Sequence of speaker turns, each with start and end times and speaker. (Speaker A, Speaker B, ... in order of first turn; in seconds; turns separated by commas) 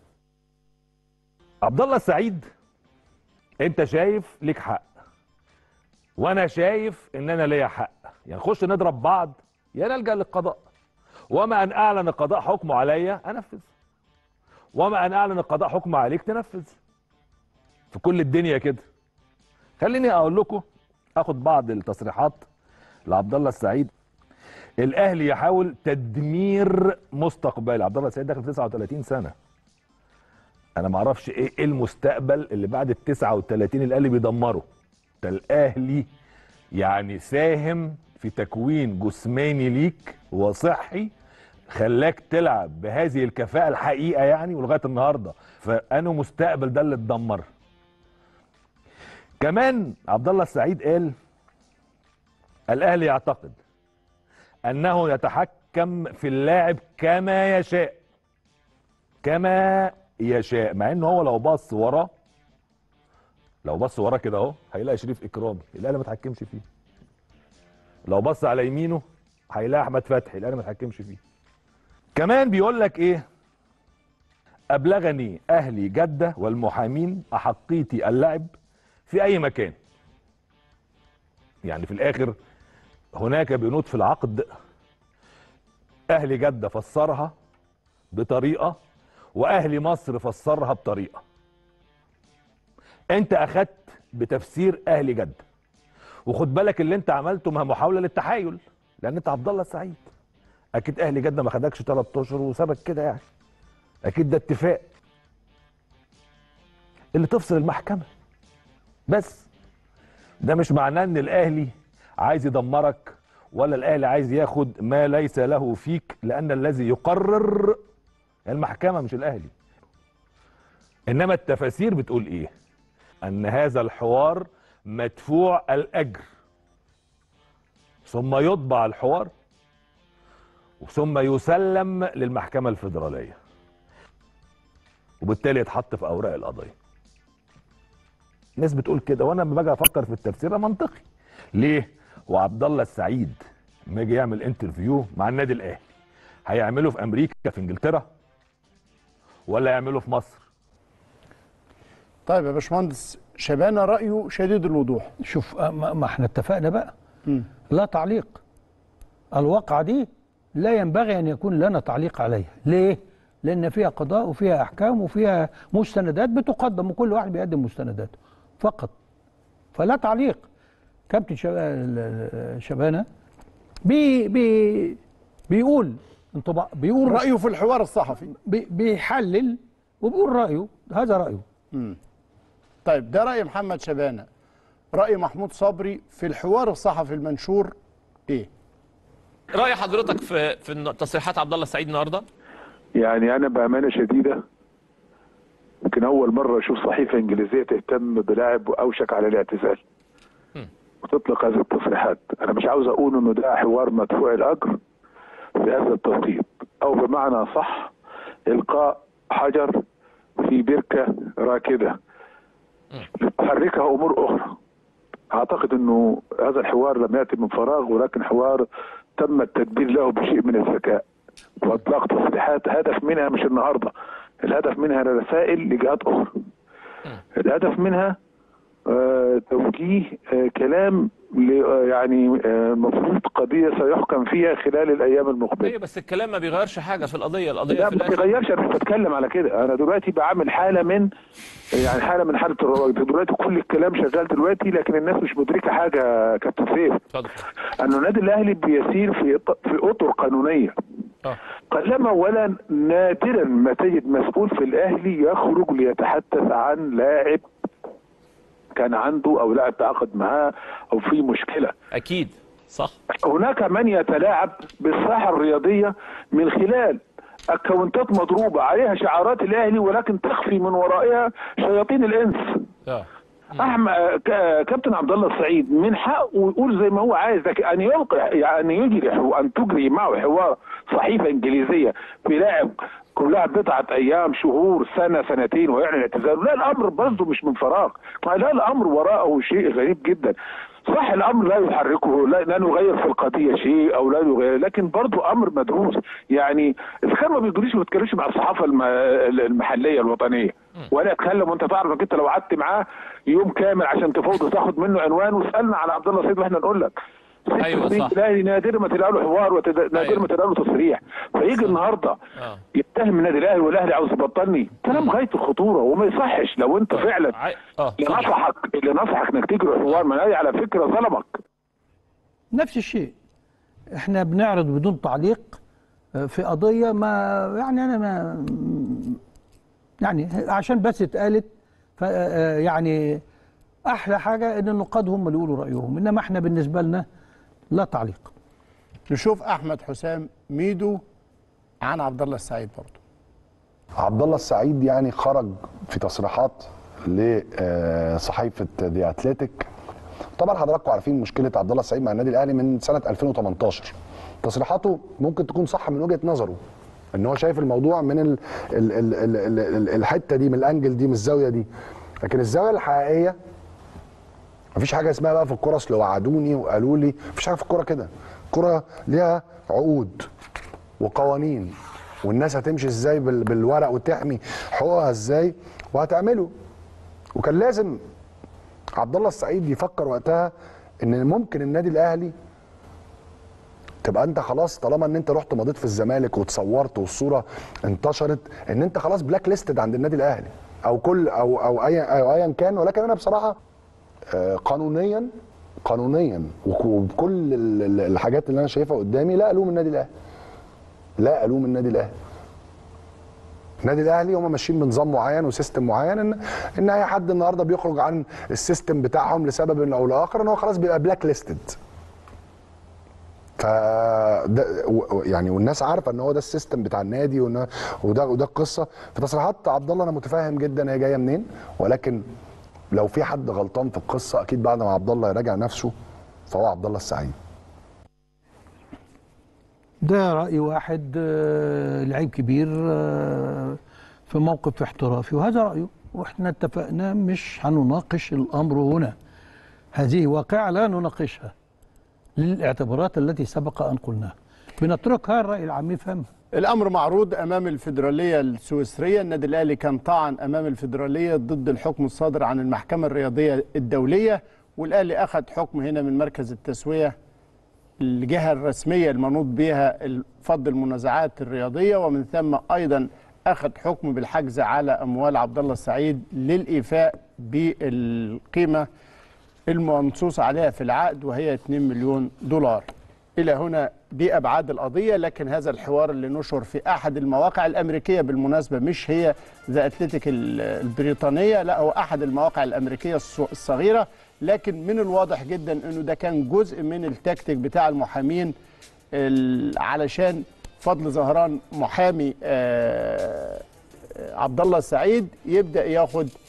Speaker A: 1.6-2.5, Speaker A: 3.6-4.9, Speaker A: 6.2-10.6, Speaker A: 11.3-13.7, Speaker A: 14.7-16.8, Speaker A: 17.9-18.9, Speaker A: 19.8-20.6, Speaker A: 21.2-22.5, Speaker A: 23.1-23.9, Speaker A: 24.8-29.3, Speaker A: 30.8-34.6, Speaker A: 35.2-36.1, Speaker A: 36.8-41.1, Speaker A: 41.7-47.5, Speaker A: 49.4-51.1, Speaker A: 52.7-53.6, Speaker A: 54.6-58.0, Speaker A: 59.2-62.1, Speaker A: 63.6-66.6, Speaker A: 68.1-71.2, Speaker A: 72.2-73.2, Speaker A: 74.7-78.5, Speaker A: 79.1-79.8, Speaker A: 81.7-82.3, Speaker A: 83.1-84.5, Speaker A: 86.1-87.3, Speaker A: 88.1-88.8, Speaker A: 89.3-91.2, Speaker A: 93.1-95.4, Speaker A: 96.3-100.1, Speaker A: 100.8-103.2, Speaker A: 104.1-104.9, Speaker A: 107.2-108.1, Speaker A: 109.1-109.5, Speaker A: 110.4-117.8, Speaker A: 118.5-119.5, Speaker A: 121.1-122.5, Speaker A: 123.2-126.2, Speaker A: 128.1-129.3, Speaker A: 130.8-133.4, Speaker A: 135.2-136.7, Speaker A: 138.6-141.0, Speaker A: 141.5-145.8, Speaker A: 146.4-148.1, Speaker A: 149.5-150.4, Speaker B: 152.3-155.1, Speaker C: 155.3-156.9, Speaker C: 157.7-158.4, Speaker C: 159.3-168.9, Speaker C: 169.7-170.5, Speaker C: 171.1-173.1, Speaker C: 173.8-175.0, Speaker C: 175.5-177.3, Speaker B: 177.0-178.3, Speaker C: 178.4-181.4, Speaker B: 181.7-182.0, Speaker B: 182.8-184.3, Speaker B: 184.9-187.7, Speaker D: 189.5-192.2, Speaker E: 193.0-194.4, Speaker E: 195.8-199.8, Speaker E: 201.0-204.8, Speaker E: 205.6-207.9, Speaker E: 208.5-209.8, Speaker E: 210.4-212.0, Speaker E: 213.2-214.6, Speaker E: 215.3-221.0, Speaker E: 221.6-226.3, Speaker E: 227.4-228.2, Speaker E: 228.9-235.7, Speaker D: 235.6-238.2, Speaker E: 237.8-241.1, Speaker E: 241.8-247.0, Speaker D: 247.1-247.4, Speaker E: 247.8-250.7, Speaker E: 251.7-257.5, Speaker E: 258.8-261.7, Speaker D: 261.9-262.9, Speaker E: 263.2-267.0, Speaker E: 267.5-272.7, Speaker D: 272.9-273.8, Speaker E: 273.6-290.4, Speaker E: 290.9-307.0, Speaker E: 307.6-312.2, Speaker D: 307.6-308.2, Speaker D: 309.9-310.3, Speaker D: 311.5-311.8, Speaker D: 312.4-312.6, Speaker E: 312.7-317.4, Speaker D: 314.9-315.2, Speaker D: 316.9-318.4, Speaker E: 318.0-321.3, Speaker C: 322.5-323.1, Speaker C: 323.9-325.6, Speaker C: 326.2-329.2, Speaker C: 330.0-333.2, Speaker C: 333.9-337.1, Speaker C: 337.7-338.3, Speaker B: 339.1-341.0, Speaker B: 341.8-343.0, Speaker F: 344.0-349.7, Speaker F: 350.4-356.6, Speaker F: 357.1-361.7, Speaker F: 362.2-363.4, Speaker F: 364.8-370.3, Speaker F: 371.0-371.7, Speaker F: 372.2-376.5, Speaker F: 377.4-378.0, Speaker F: 379.0-380.5, Speaker F: 381.0-382.3, Speaker F: 384.0-393.6, Speaker F: 394.3-395.3, Speaker F: 395.9-400.1, Speaker F: 401.2-402.1, Speaker F: 403.8-411.8, Speaker F: 413.6-422.2, Speaker F: 422.9-425.9, Speaker F: 426.5-427.3, Speaker C: 430.0-439.1, Speaker C: 439.9-441.5, Speaker C: 442.4-446.3, Speaker B: 446.6-457.1, Speaker B: 458.0-468.9, Speaker B: 469.7-488.5, Speaker B: 489.1-493.6, Speaker B: 494.1-496.3